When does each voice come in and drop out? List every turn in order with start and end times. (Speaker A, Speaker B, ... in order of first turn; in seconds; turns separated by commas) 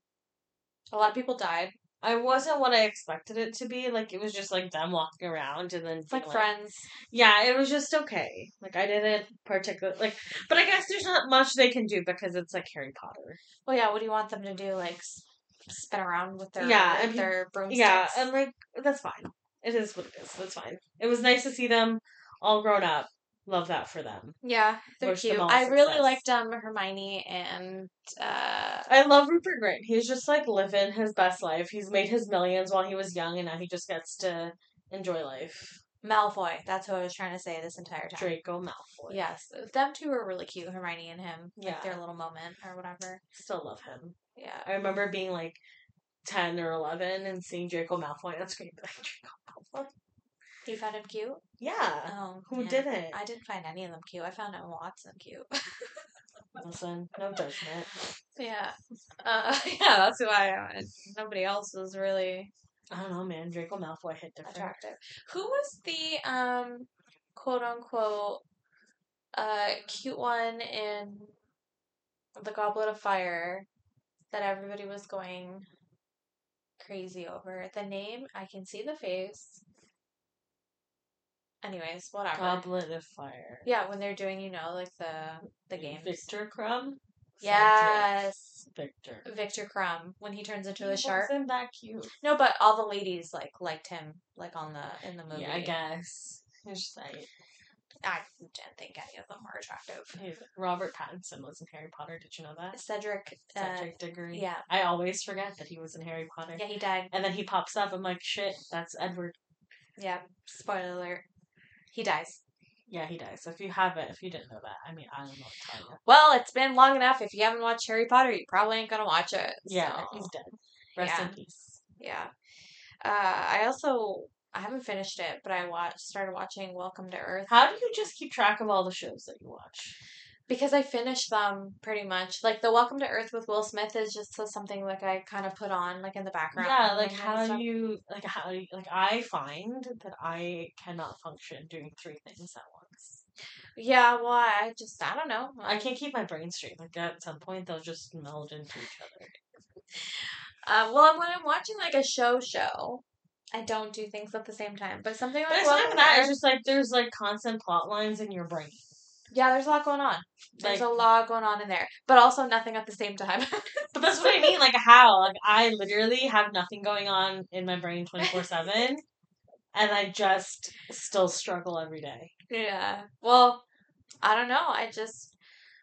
Speaker A: 0.9-1.7, Speaker B: 2.0-6.5, Speaker A: 6.1-6.9, Speaker B: 7.1-13.4, Speaker A: 13.7-18.3, Speaker B: 16.6-24.4, Speaker A: 24.4-28.9, Speaker B: 25.0-26.2, Speaker B: 28.9-35.8, Speaker A: 36.0-38.3, Speaker B: 38.1-39.2, Speaker A: 39.1-43.2, Speaker B: 41.6-42.0, Speaker B: 43.3-45.6, Speaker A: 44.4-44.7, Speaker B: 46.2-49.9, Speaker A: 50.6-51.4, Speaker B: 51.6-53.2, Speaker A: 52.1-56.0, Speaker B: 56.6-58.0, Speaker A: 58.4-62.5, Speaker B: 62.9-64.8, Speaker A: 64.4-68.4, Speaker A: 69.3-71.3, Speaker A: 72.4-73.7, Speaker A: 74.3-75.6, Speaker A: 76.8-79.6, Speaker A: 81.6-82.6, Speaker B: 82.3-83.7, Speaker A: 83.6-86.3, Speaker B: 85.7-89.2, Speaker A: 87.4-88.7, Speaker A: 89.2-91.3, Speaker B: 90.8-92.1, Speaker A: 92.2-95.7, Speaker B: 95.3-97.3, Speaker A: 98.0-100.2, Speaker B: 100.1-102.8, Speaker A: 102.7-104.7, Speaker B: 103.5-109.4, Speaker A: 106.5-107.1, Speaker A: 110.0-111.2, Speaker A: 111.9-112.4, Speaker B: 112.9-116.0, Speaker A: 116.0-120.3, Speaker B: 119.7-121.8, Speaker A: 121.0-121.4, Speaker A: 122.0-122.3, Speaker A: 123.0-127.5, Speaker B: 127.5-130.0, Speaker A: 130.5-137.6, Speaker B: 136.6-143.2, Speaker A: 143.8-145.9, Speaker B: 145.7-149.3, Speaker A: 150.1-156.3, Speaker B: 155.5-158.8, Speaker A: 159.3-164.6, Speaker B: 160.6-160.9, Speaker B: 163.9-169.0, Speaker A: 168.2-168.8, Speaker B: 169.7-172.3, Speaker A: 172.5-173.6, Speaker A: 174.2-175.3